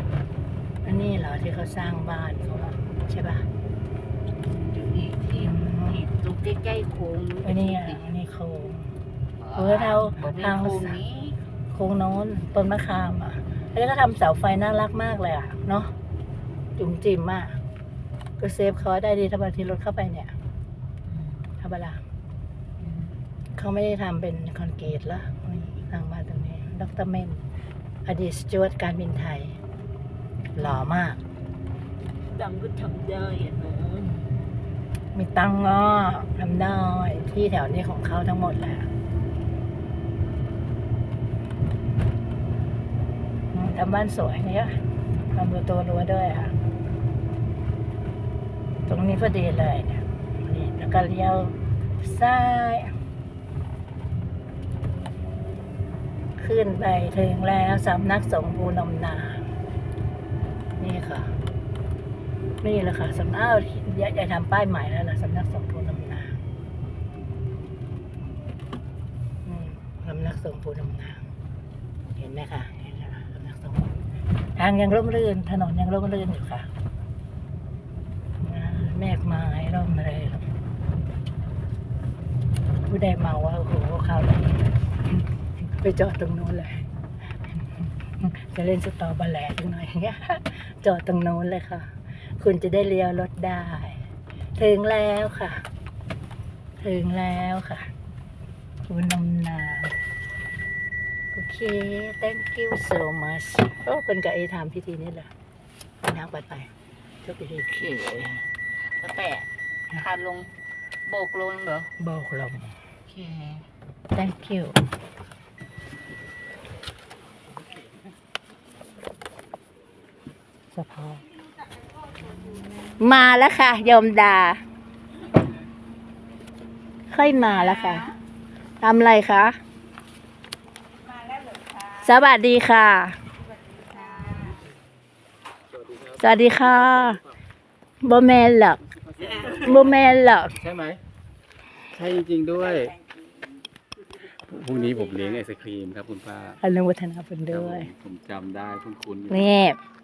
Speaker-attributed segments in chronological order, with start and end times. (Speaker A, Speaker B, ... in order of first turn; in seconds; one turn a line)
Speaker A: 0.8-3.5
Speaker B: 4.4-8.0
Speaker A: 5.3-6.0
Speaker A: 7.4-8.9
Speaker B: 9.5-11.3
Speaker A: 9.5-10.9
Speaker A: 11.7-15.9
Speaker A: 16.8-17.5
Speaker A: 18.4-20.3
Speaker B: 21.1-21.5
Speaker A: 21.6-22.0
Speaker B: 22.8-23.1
Speaker A: 23.6-27.4
Speaker A: 28.1-29.6
Speaker A: 30.5-31.2
Speaker B: 32.3-34.3
Speaker A: 35.1-38.9
Speaker A: 43.5-44.8
Speaker A: 45.3-46.5
Speaker A: 48.9-52.9
Speaker A: 56.4-59.4
Speaker A: 60.8-61.3
Speaker A: 62.6-66.4
Speaker A: 69.4-71.2
Speaker A: 72.2-73.9
Speaker A: 74.6-76.7
Speaker A: 78.4-80.4
Speaker A: 82.9-86.9
Speaker A: 87.8-91.9
Speaker A: 92.4-94.0
Speaker A: 94.6-95.6
Speaker A: 96.8-97.9
Speaker A: 98.9-100.0
Speaker A: 101.3-105.3
Speaker A: 106.0-106.7
Speaker A: 107.2-108.4
Speaker B: 109.0-110.5
Speaker B: 111.1-111.9
Speaker A: 112.0-112.7
Speaker B: 113.1-113.6
Speaker A: 114.1-114.8
Speaker A: 120.7-121.2
Speaker B: 122.3-122.7
Speaker A: 123.0-124.6
Speaker A: 127.1-128.1
Speaker B: 127.4-128.1
Speaker A: 128.8-129.6
Speaker B: 131.0-132.2
Speaker A: 132.0-133.2
Speaker B: 133.4-134.6
Speaker C: 135.8-136.2
Speaker A: 136.2-137.2
Speaker A: 138.0-138.8
Speaker C: 139.2-139.6
Speaker B: 139.2-139.7
Speaker A: 139.6-140.5
Speaker C: 140.6-141.0
Speaker C: 141.9-142.9
Speaker B: 142.7-143.2
Speaker C: 144.5-146.6
Speaker A: 146.6-147.9
Speaker C: 147.5-149.6
Speaker A: 149.3-149.8